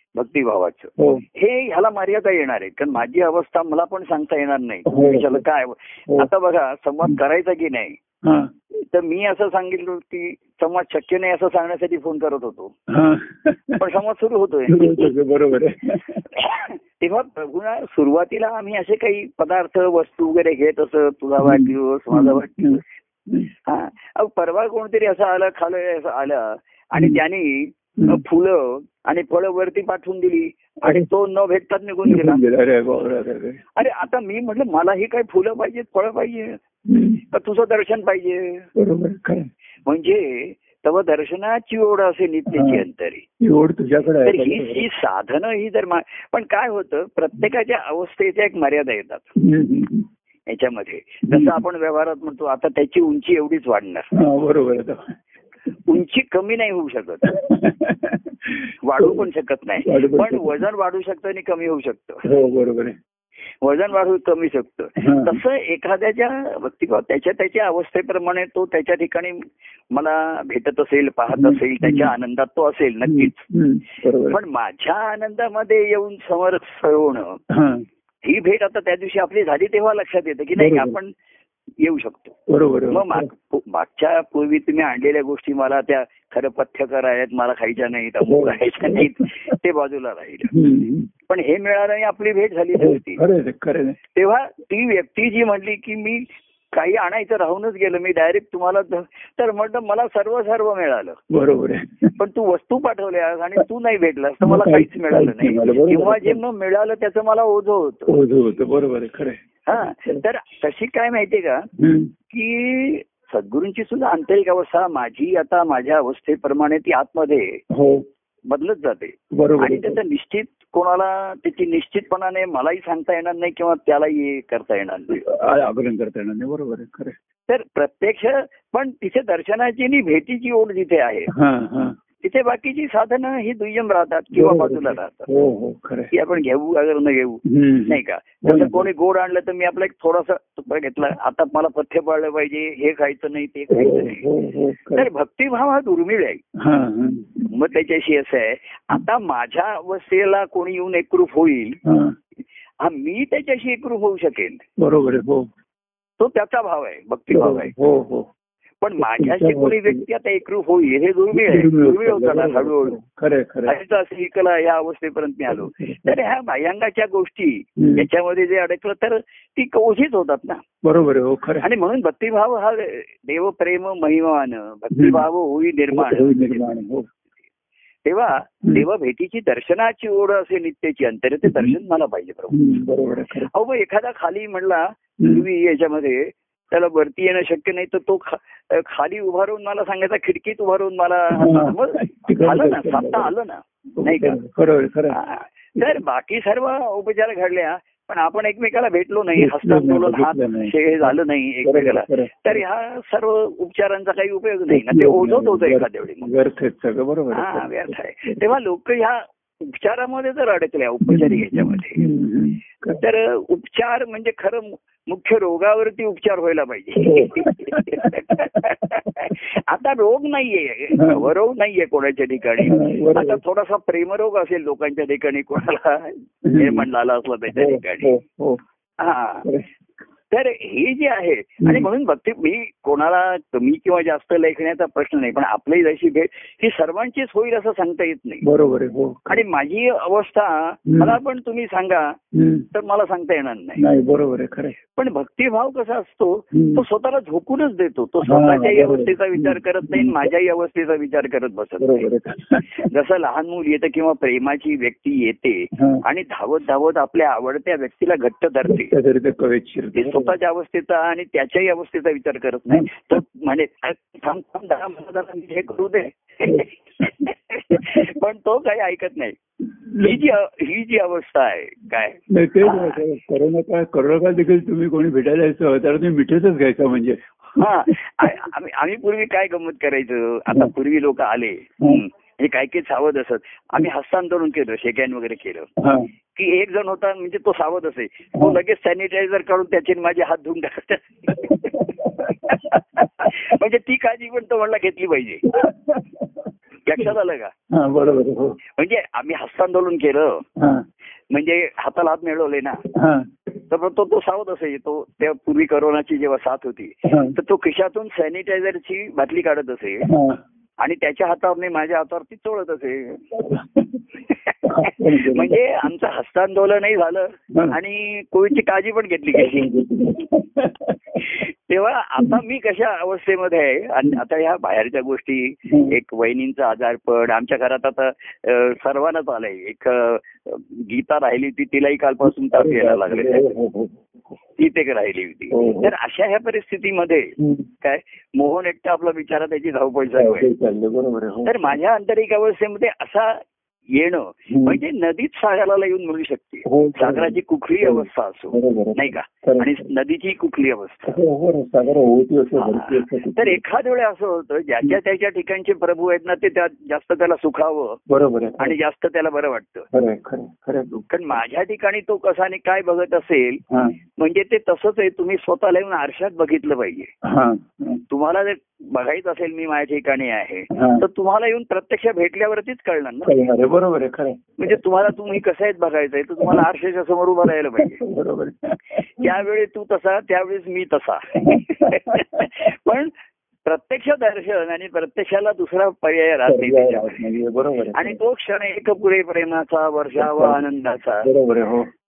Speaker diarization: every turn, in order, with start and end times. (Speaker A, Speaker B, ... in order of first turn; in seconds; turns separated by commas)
Speaker A: 0.1-8.0, Speaker B: 1.0-1.2, Speaker B: 4.9-5.4, Speaker B: 8.2-8.5, Speaker A: 8.8-12.7, Speaker B: 12.9-13.8, Speaker A: 13.8-15.1, Speaker B: 14.7-16.2, Speaker A: 16.3-22.8, Speaker B: 21.4-23.5, Speaker A: 23.7-32.4, Speaker B: 32.1-33.7, Speaker A: 33.8-36.6, Speaker B: 36.9-37.2, Speaker A: 37.3-38.7, Speaker B: 38.8-39.5, Speaker A: 39.9-43.2, Speaker B: 42.5-42.8, Speaker B: 43.4-44.9, Speaker A: 44.2-49.3, Speaker B: 49.4-50.1, Speaker A: 50.5-54.1, Speaker B: 51.3-51.6, Speaker B: 54.1-55.1, Speaker A: 55.9-57.3, Speaker B: 57.3-59.3, Speaker A: 58.8-62.2, Speaker B: 59.9-60.6, Speaker B: 62.2-63.0, Speaker A: 63.6-69.4, Speaker B: 65.0-65.4, Speaker A: 69.9-73.5, Speaker B: 71.3-72.1, Speaker B: 73.1-74.4, Speaker A: 74.3-77.4, Speaker B: 77.5-77.8, Speaker A: 78.2-81.1, Speaker B: 80.6-81.0, Speaker A: 81.8-82.3, Speaker B: 82.5-83.3, Speaker A: 82.9-90.5, Speaker B: 88.2-89.5, Speaker B: 90.5-91.1, Speaker A: 91.3-93.2, Speaker B: 92.8-94.0, Speaker A: 94.1-101.2, Speaker B: 101.3-102.2, Speaker A: 102.2-108.1, Speaker B: 104.4-106.4, Speaker B: 108.1-110.2, Speaker A: 109.7-111.6, Speaker B: 111.8-112.1, Speaker A: 112.3-117.6, Speaker B: 117.7-118.0, Speaker A: 118.5-125.2, Speaker B: 119.3-120.0, Speaker B: 125.1-127.2, Speaker A: 127.5-131.3, Speaker B: 131.3-132.0, Speaker A: 132.2-135.3, Speaker B: 134.3-136.1, Speaker A: 136.1-144.3, Speaker B: 137.5-138.9, Speaker B: 143.7-145.1, Speaker A: 145.0-146.4, Speaker B: 146.6-147.5, Speaker A: 147.5-151.8, Speaker B: 151.8-152.1, Speaker A: 152.8-154.6, Speaker B: 154.8-155.5, Speaker A: 156.2-157.7, Speaker B: 157.3-158.3, Speaker A: 158.8-163.0, Speaker B: 159.0-160.0, Speaker B: 161.3-163.8, Speaker A: 163.7-170.6, Speaker B: 165.5-166.2, Speaker B: 167.8-168.1, Speaker B: 170.8-171.7, Speaker A: 171.6-176.7, Speaker B: 174.9-175.2, Speaker B: 175.9-177.1, Speaker A: 178.1-182.6, Speaker B: 181.4-181.8, Speaker B: 182.5-183.5, Speaker A: 183.5-194.4, Speaker B: 191.4-193.3, Speaker B: 194.0-195.2, Speaker A: 195.1-206.3, Speaker B: 199.4-202.6, Speaker B: 204.7-208.4, Speaker A: 207.3-212.0, Speaker B: 211.1-213.0, Speaker A: 212.9-228.1, Speaker B: 217.0-218.7, Speaker B: 220.9-221.3, Speaker B: 222.6-223.4, Speaker B: 226.5-226.9, Speaker B: 227.5-228.6, Speaker A: 229.0-229.5, Speaker A: 230.3-238.4, Speaker B: 231.6-231.9, Speaker B: 238.4-239.4, Speaker A: 239.3-242.2, Speaker B: 240.9-241.2, Speaker B: 242.3-242.7, Speaker A: 242.7-243.8, Speaker B: 243.8-244.8, Speaker A: 245.0-252.1, Speaker B: 246.5-246.8, Speaker B: 248.2-250.3, Speaker B: 251.8-252.9, Speaker A: 252.8-258.9, Speaker B: 255.8-256.0, Speaker B: 258.6-260.3, Speaker A: 260.0-269.4, Speaker B: 262.7-263.2, Speaker B: 267.7-268.1, Speaker B: 269.9-270.2, Speaker A: 270.0-273.0, Speaker B: 272.3-278.3, Speaker A: 277.6-285.7, Speaker B: 285.8-286.1, Speaker A: 286.4-291.9, Speaker B: 291.3-293.3, Speaker A: 293.0-295.5, Speaker B: 295.5-296.3, Speaker A: 296.9-297.5, Speaker B: 297.7-298.6, Speaker A: 298.8-300.4, Speaker B: 300.6-300.8, Speaker A: 301.3-302.8, Speaker B: 302.9-303.3, Speaker A: 303.7-310.1, Speaker B: 307.1-307.4, Speaker B: 310.1-310.4, Speaker A: 310.8-313.2, Speaker B: 313.4-314.0, Speaker A: 314.3-319.7, Speaker B: 314.6-315.6, Speaker B: 319.3-321.3, Speaker A: 321.2-333.5, Speaker B: 325.7-325.9, Speaker B: 332.2-334.0, Speaker A: 334.6-337.3, Speaker B: 335.5-335.9, Speaker B: 337.4-337.7, Speaker A: 337.8-340.5, Speaker B: 340.2-341.8, Speaker A: 341.4-343.4, Speaker A: 344.0-351.2, Speaker B: 344.5-344.8, Speaker B: 346.7-349.9, Speaker B: 351.1-353.6, Speaker A: 352.6-358.0, Speaker B: 358.1-358.8, Speaker A: 358.6-359.9, Speaker B: 359.9-361.1, Speaker A: 361.1-363.6, Speaker A: 364.2-367.1, Speaker B: 367.2-368.0, Speaker A: 368.1-373.4, Speaker B: 370.7-371.0, Speaker B: 373.3-375.2, Speaker A: 374.6-378.0, Speaker B: 377.8-379.4, Speaker A: 379.2-383.1, Speaker B: 381.4-382.5, Speaker A: 383.6-387.2, Speaker B: 386.5-388.2, Speaker A: 387.9-391.3, Speaker B: 390.2-390.6, Speaker B: 391.2-391.9